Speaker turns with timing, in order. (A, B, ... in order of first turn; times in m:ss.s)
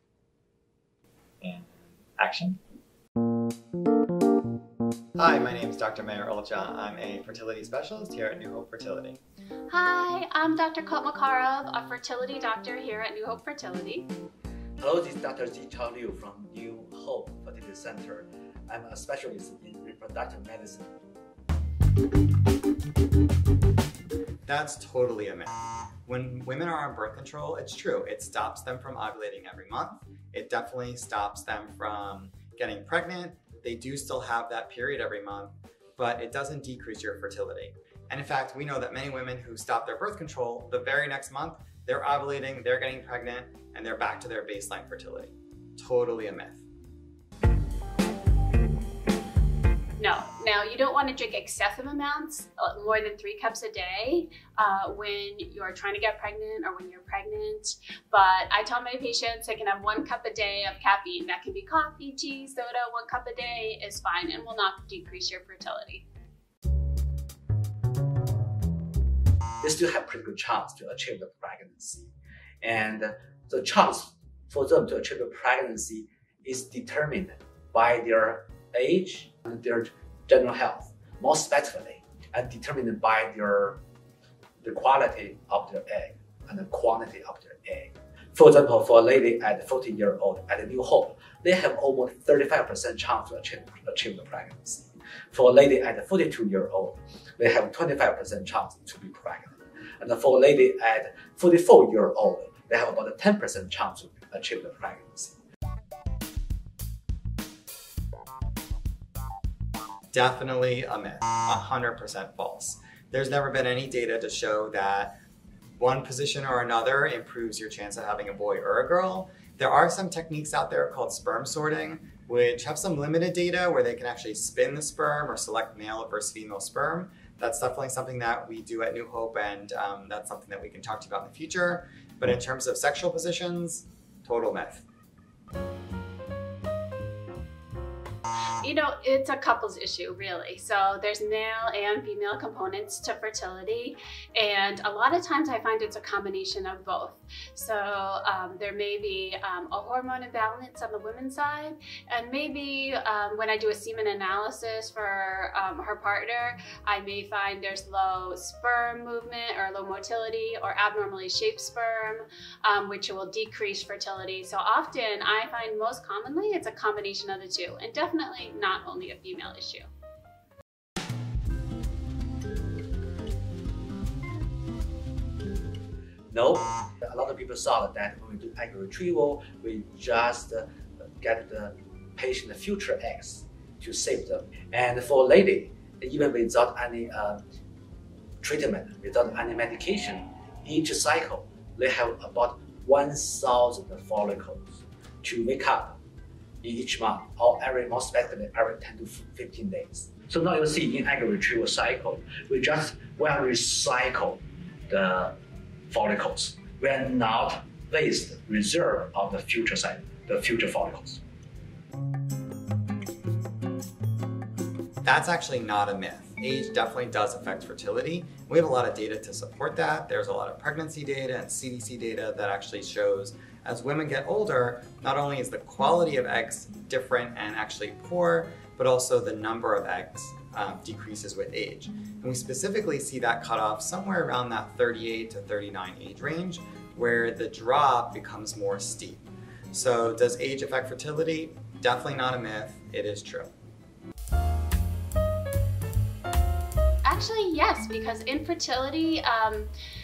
0:01.4-0:02.6 A
0:05.2-0:09.2 A
0:09.7-0:14.1 B
0:14.8-0:21.0 C
0:24.5-0:46.6 A
0:50.0-1:06.1 B
1:09.6-1:23.8 C
1:24.6-1:45.4 C
1:50.1-1:55.1 A
1:55.8-2:14.8 A
2:18.6-2:49.9 B
2:56.3-3:00.7 C
3:01.2-3:07.4 C
3:08.4-3:16.0 C
3:16.6-3:25.4 C
3:25.9-3:31.2 C
3:35.0-4:03.5 A
4:07.0-4:09.7 B